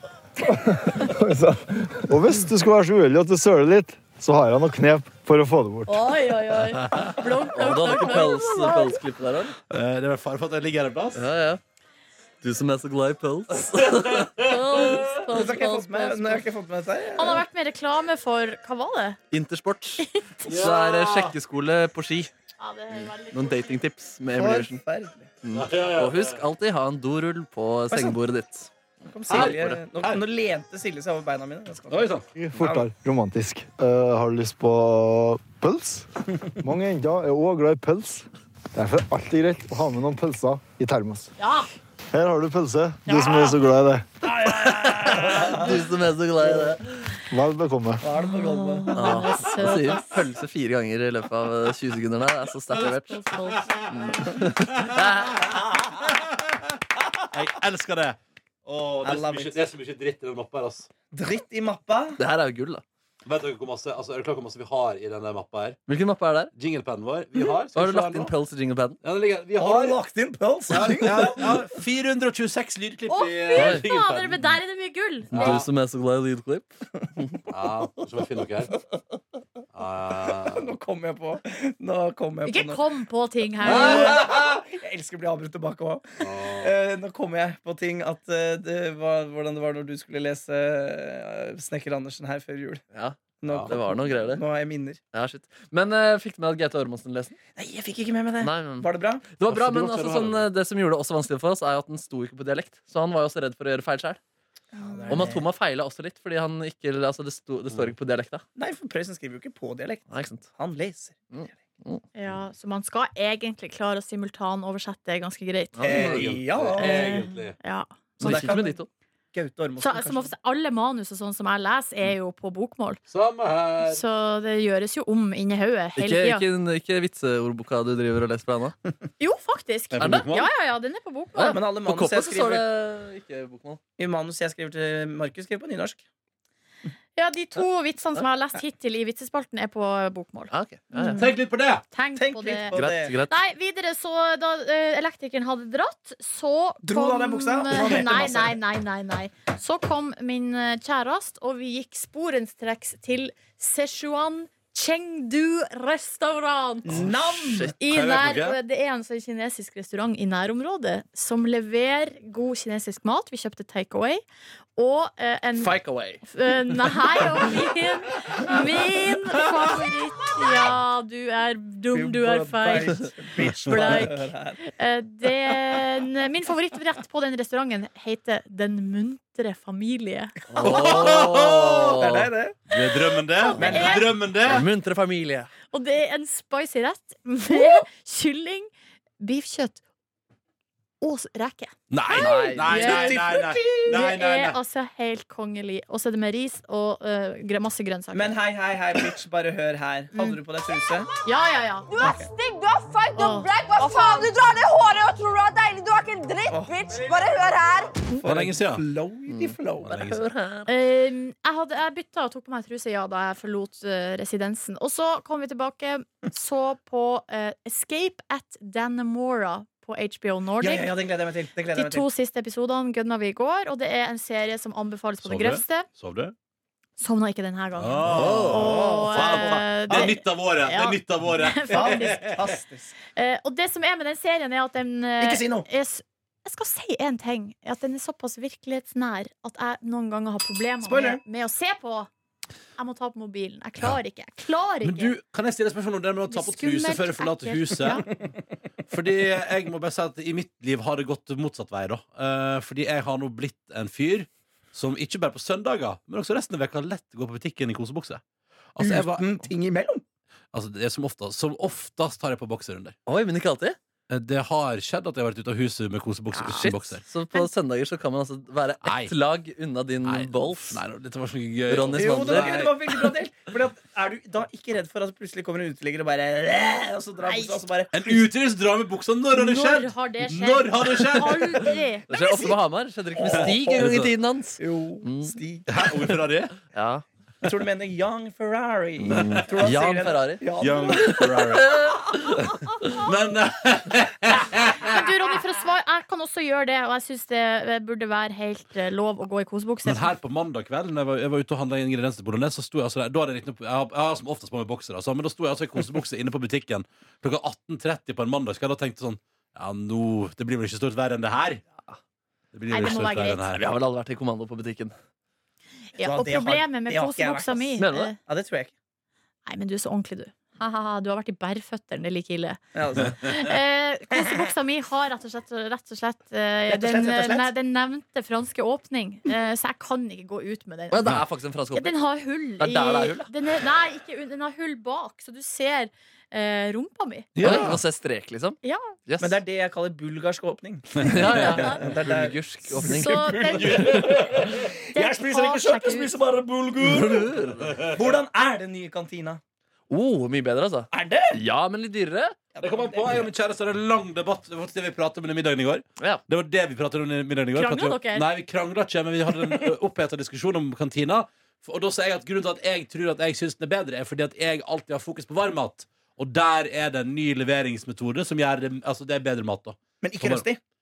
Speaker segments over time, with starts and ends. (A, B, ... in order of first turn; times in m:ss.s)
0:00.4-0:06.2 A
0:05.9-0:09.0 B
0:06.9-0:09.5 C
0:09.7-0:11.2 D
0:11.1-0:11.6 C
0:12.4-0:14.3 C
0:13.6-0:15.1 D
0:14.4-0:16.4 B
0:15.3-0:17.4 E
0:17.2-0:19.2 B
0:19.3-0:22.3 C
0:20.0-0:20.7 B
0:20.4-0:21.3 D
0:22.6-0:23.8 B
0:23.3-0:24.8 C
0:24.3-0:25.3 E
0:25.4-0:28.7 C
0:25.5-0:26.4 D
0:27.9-0:28.2 E
0:29.0-0:32.9 E
0:29.3-0:30.2 D
0:29.3-0:29.6 C
0:31.9-0:32.2 D
0:32.3-0:36.1 A
0:36.6-0:41.3 A
0:41.4-0:41.7 B
0:42.1-0:44.0 A
0:43.0-0:43.6 B
0:44.3-0:45.6 E
0:44.4-0:46.8 C
0:47.3-0:48.0 A
0:48.0-0:49.2 E
0:48.3-0:50.2 B
0:48.9-0:53.2 C
0:52.7-0:53.7 B
0:53.4-0:56.5 D
0:53.9-0:55.4 C
0:57.3-1:00.9 D
0:59.0-0:59.6 E
1:01.1-1:02.2 E
1:02.2-1:02.8 C
1:03.2-1:05.8 D
1:05.9-1:06.5 C
1:06.5-1:08.3 D
1:07.7-1:09.0 C
1:09.0-1:10.0 D
1:09.6-1:11.6 E
1:10.7-1:14.6 D
1:13.1-1:15.6 B
1:13.5-1:13.8 C
1:15.3-1:15.6 D
1:15.3-1:17.4 C
1:17.5-1:18.7 D
1:19.7-1:20.6 D
1:20.3-1:22.8 E
1:22.4-1:24.2 B
1:23.6-1:32.8 E
1:23.6-1:24.4 D
1:26.2-1:26.7 D
1:32.9-1:34.4 C
1:33.4-1:35.0 E
1:35.1-1:37.4 C
1:37.6-1:39.2 E
1:38.4-1:44.2 C
1:39.5-1:40.4 D
1:44.7-1:45.4 E
1:45.1-1:48.4 C
1:48.6-1:51.1 E
1:50.1-1:50.5 C
1:51.3-1:52.0 C
1:52.2-1:55.9 B
1:55.7-1:56.2 C
1:55.8-1:57.3 E
1:55.9-1:57.6 D
1:56.8-1:58.4 B
1:58.2-1:58.8 E
1:58.2-1:58.9 C
1:59.3-2:00.3 E
1:59.8-2:03.0 B
2:03.1-2:04.0 D
2:03.8-2:06.4 B
2:06.0-2:08.7 C
2:09.2-2:11.6 B
2:09.9-2:10.5 D
2:10.0-2:10.2 C
2:11.3-2:13.8 C
2:11.5-2:12.6 E
2:14.0-2:16.0 E
2:17.2-2:21.3 B
2:20.5-2:21.2 C
2:21.2-2:21.8 D
2:21.9-2:37.0 B
2:22.2-2:23.1 E
2:22.7-2:23.4 C
2:26.8-2:28.6 E
2:36.8-2:37.7 E
2:37.1-2:37.7 C
2:37.7-2:44.2 B
2:37.9-2:38.6 D
2:44.8-2:45.8 B
2:45.6-2:46.2 C
2:46.3-2:53.1 B
2:51.9-2:54.6 E
2:53.6-3:00.3 B
3:00.5-3:02.3 C
3:00.5-3:02.8 E
3:00.6-3:01.9 D
3:02.7-3:04.7 D
3:03.4-3:04.1 B
3:03.6-3:04.1 E
3:04.4-3:05.5 C
3:05.7-3:08.7 B
3:09.2-3:09.8 B
3:11.0-3:13.3 B
3:11.9-3:14.6 D
3:12.2-3:13.1 C
3:12.7-3:14.0 E
3:13.8-3:18.4 B
3:18.1-3:21.1 E
3:21.2-3:22.1 B
3:21.9-3:28.0 F
3:23.1-3:24.3 B
3:26.5-3:26.8 E
3:28.1-3:30.0 E
3:28.2-3:28.8 D
3:29.3-3:30.7 C
3:29.8-3:30.2 D
3:30.7-3:40.9 B
3:40.6-3:42.0 E
3:41.7-3:45.9 B
3:45.2-3:46.3 D
3:47.0-3:52.3 B
3:47.8-3:52.4 D
3:48.1-3:50.1 E
3:51.7-3:52.9 E
3:53.1-4:02.1 B
3:55.2-3:55.7 E
4:00.8-4:01.2 E
4:02.8-4:05.1 B
4:04.8-4:08.0 D
4:06.3-4:08.0 B
4:08.9-4:18.2 D
4:18.8-4:19.4 D
4:18.8-4:20.0 E
4:20.5-4:23.0 D
4:23.1-4:23.8 C
4:24.1-4:27.0 D
4:26.4-4:26.7 B
4:26.4-4:30.8 C
4:28.8-4:29.1 D
4:30.0-4:33.0 D
4:31.7-4:32.5 C
4:32.0-4:38.3 E
4:37.2-4:37.6 B
4:37.9-4:41.7 D
4:39.3-4:42.1 B
4:42.1-4:45.4 C
4:42.1-4:42.5 E
4:43.2-4:44.0 E
4:43.4-4:44.1 D
4:44.6-4:45.7 E
4:45.7-4:46.5 D
4:46.6-4:47.0 C
4:47.4-4:51.4 E
4:49.0-4:50.4 C
4:49.2-4:49.4 D
4:50.6-4:55.0 D
4:51.2-4:52.0 C
4:54.9-5:00.1 B
4:59.8-5:11.6 D
5:12.5-5:13.7 D
5:12.7-5:13.4 B
5:13.5-5:14.9 C
5:16.0-5:18.2 B
5:16.0-5:18.7 E
5:17.8-5:18.1 C
5:19.4-5:22.6 B
5:22.7-5:23.5 E
5:23.2-5:31.0 B
5:26.7-5:27.5 E
5:30.9-5:31.9 C
5:31.7-5:37.3 B
5:32.6-5:33.3 C
5:37.3-5:37.8 D
5:37.4-5:39.4 C
5:38.6-5:38.9 B
5:39.2-5:47.3 E
5:41.0-5:44.0 C
5:41.2-5:41.8 B
5:42.8-5:44.2 B
5:44.9-5:46.2 B
5:46.8-5:47.8 C
5:47.8-5:49.4 E
5:49.9-5:52.4 C
5:50.9-5:51.3 E
5:52.5-5:53.3 E
5:52.6-6:10.4 D
5:57.5-5:58.3 B
6:10.0-6:10.6 E